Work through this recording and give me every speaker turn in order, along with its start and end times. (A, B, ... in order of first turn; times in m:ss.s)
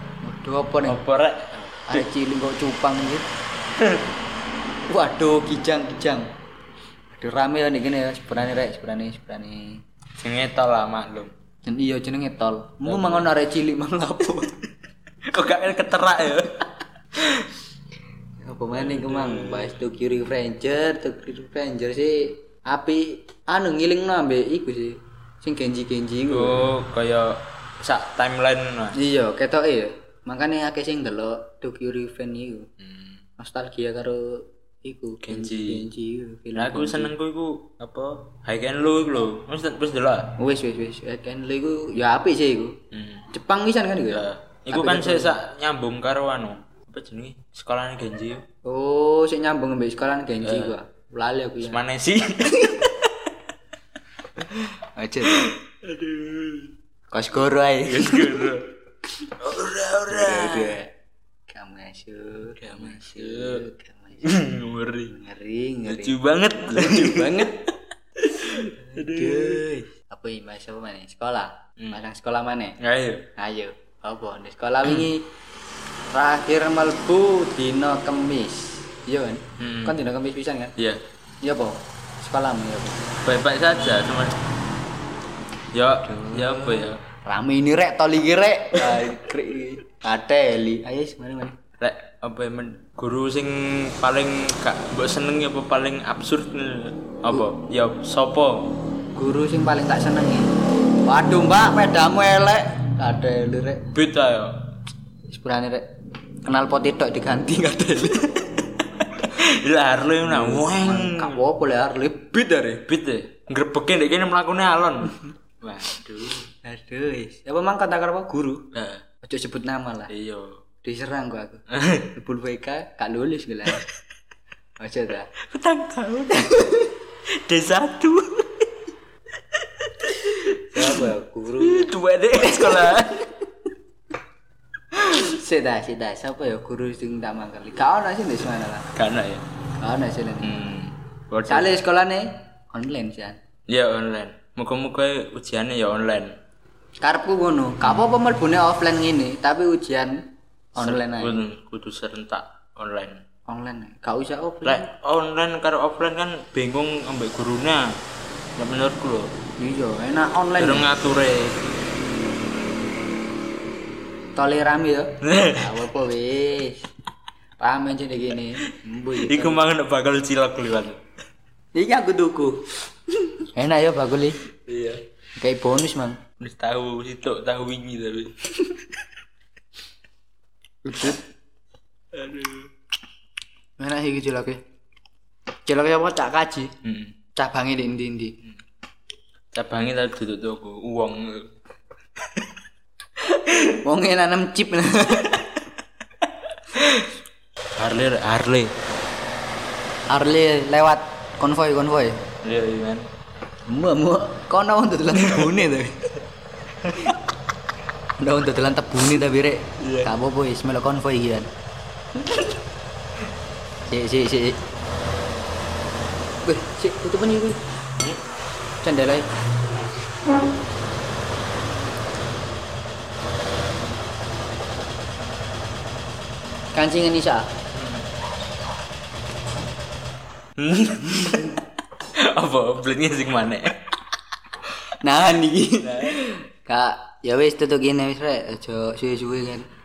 0:00.2-0:01.0 A
0:00.8-0:02.1 B
0:01.7-0:03.3 A
0:03.8-0:04.0 B
0:04.9-0:06.3 A
0:07.1-0:09.8 A
0:10.2-0:11.3 B
0:11.7-0:14.6 A
0:12.8-0:13.3 B
0:15.2-0:17.5 B
0:18.4-0:26.7 A
0:18.7-0:19.8 B
0:26.3-0:29.0 B
0:28.9-0:32.7 A
0:32.8-0:33.2 B
0:33.4-0:37.1 A
0:35.2-0:35.9 B
0:36.6-0:40.3 B
0:40.4-0:42.8 A
0:42.9-0:43.3 B
0:43.3-0:45.4 A
0:44.1-0:48.4 B
0:48.6-0:51.8 A
0:50.4-0:50.8 B
0:51.6-0:53.3 B
0:54.5-0:55.5 A
0:55.2-0:56.7 B
0:57.1-0:58.5 A
0:57.8-0:58.7 B
0:59.2-1:00.8 B
1:00.1-1:00.9 A
1:01.5-1:04.3 A
1:02.6-1:03.6 B
1:04.2-1:05.1 B
1:05.1-1:07.6 A
1:05.9-1:09.7 B
1:08.6-1:12.8 A
1:12.8-1:13.3 B
1:13.4-1:15.3 A
1:16.1-1:20.8 A
1:19.6-1:20.0 B
1:20.8-1:21.0 B
1:21.4-1:23.1 A
1:23.2-1:24.4 B
1:25.7-1:27.0 B
1:26.0-1:31.6 A
1:28.8-1:29.2 B
1:31.8-1:38.8 B
1:39.2-1:43.9 A
1:43.9-1:44.7 B
1:45.3-1:45.9 A
1:46.4-1:48.6 A
1:49.2-1:51.4 B
1:50.2-1:52.8 A
1:52.9-1:56.5 B
1:56.6-1:58.7 A
1:58.7-1:59.0 B
1:59.2-2:00.1 A
2:00.1-2:00.6 B
2:00.8-2:03.9 A
2:01.7-2:02.1 B
2:04.8-2:05.3 A
2:05.4-2:08.8 B
2:09.5-2:13.4 B
2:10.7-2:11.9 A
2:12.5-2:12.9 A
2:14.9-2:18.9 A
2:18.9-2:19.5 B
2:19.8-2:20.7 A
2:20.4-2:21.8 B
2:21.5-2:23.4 A
2:23.7-2:26.4 B
2:27.0-2:30.2 A
2:27.8-2:28.1 B
2:30.8-2:31.4 A
2:30.8-2:33.2 B
2:33.5-2:34.9 A
2:34.6-2:37.9 B
2:38.6-2:39.3 B
2:39.6-2:40.9 A
2:40.6-2:41.6 B
2:44.4-2:46.8 A
2:45.2-2:45.7 B
2:47.6-2:49.7 A
2:49.2-2:51.0 B
2:51.8-2:52.6 A
2:53.3-2:54.4 A
2:54.7-2:55.0 B
2:55.4-2:56.2 A
2:56.4-2:58.8 B
3:00.8-3:01.2 A
3:02.1-3:02.7 B
3:03.8-3:04.6 A
3:05.7-3:06.7 A
3:06.8-3:07.2 B
3:07.4-3:08.4 A
3:09.5-3:11.5 B
3:12.2-3:12.5 B
3:13.3-3:15.6 A
3:16.7-3:17.1 B
3:17.8-3:18.8 B
3:20.1-3:22.2 A
3:22.4-3:23.1 B
3:23.7-3:26.1 A
3:25.2-3:25.6 B
3:26.8-3:27.1 B
3:28.2-3:31.5 A
3:29.8-3:30.1 B
3:33.9-3:34.6 A
3:36.4-3:37.6 A
3:38.8-3:39.3 A
3:46.7-3:47.5 A
3:47.7-3:48.1 B
3:50.6-3:53.9 B
3:54.9-3:59.7 A
3:55.8-3:56.2 B